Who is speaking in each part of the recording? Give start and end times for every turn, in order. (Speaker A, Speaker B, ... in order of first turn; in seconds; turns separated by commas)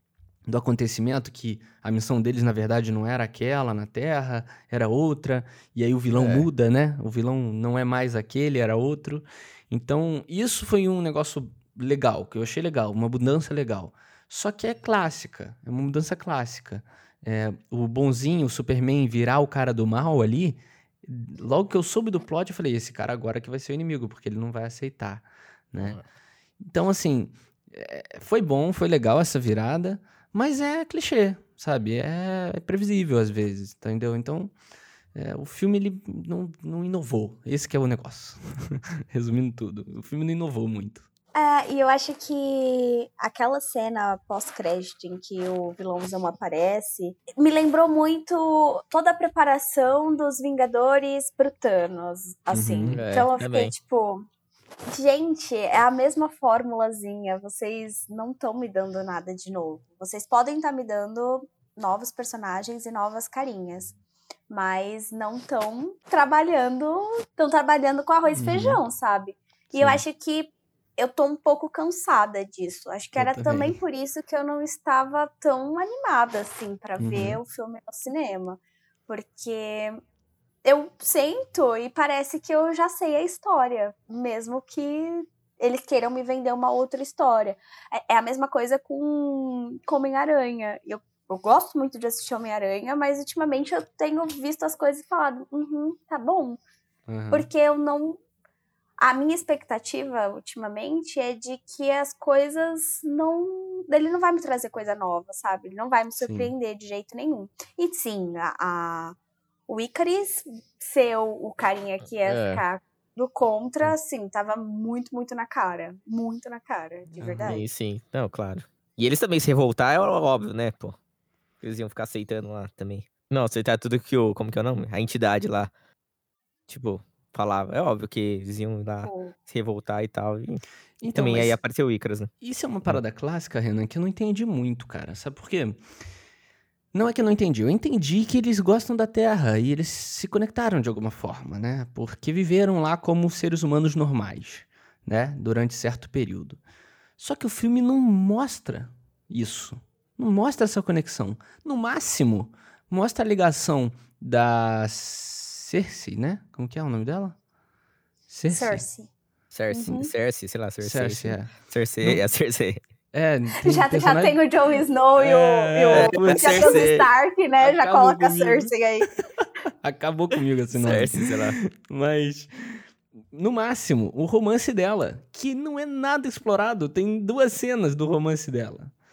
Speaker A: 0.5-26.0, Speaker B: 6.1-6.5, Speaker B: 25.8-26.0, Speaker A: 26.6-34.5, Speaker A: 35.1-41.0, Speaker C: 41.4-54.2, Speaker A: 52.5-53.0, Speaker B: 52.9-53.7, Speaker C: 54.9-64.0, Speaker C: 64.5-80.0, Speaker A: 68.4-68.8, Speaker A: 69.7-70.0, Speaker A: 73.2-73.8, Speaker A: 77.0-77.4, Speaker C: 80.6-96.6, Speaker A: 97.1-97.5, Speaker C: 97.3-98.2, Speaker C: 99.0-109.2, Speaker A: 106.2-106.5, Speaker C: 109.7-117.6, Speaker B: 112.2-112.6, Speaker A: 117.1-117.6, Speaker B: 117.5-121.0, Speaker B: 121.6-125.7, Speaker B: 126.7-132.3, Speaker C: 129.0-129.3, Speaker A: 131.0-131.6, Speaker A: 132.4-135.8, Speaker A: 136.9-146.6, Speaker A: 147.2-157.4, Speaker A: 158.3-158.8, Speaker C: 158.5-159.1, Speaker B: 159.5-162.8, Speaker C: 159.7-160.1, Speaker A: 160.8-162.2, Speaker A: 163.1-164.4, Speaker C: 163.5-169.1, Speaker A: 165.2-166.9, Speaker B: 165.9-167.1, Speaker A: 167.6-168.7, Speaker A: 169.4-178.9, Speaker B: 170.7-171.6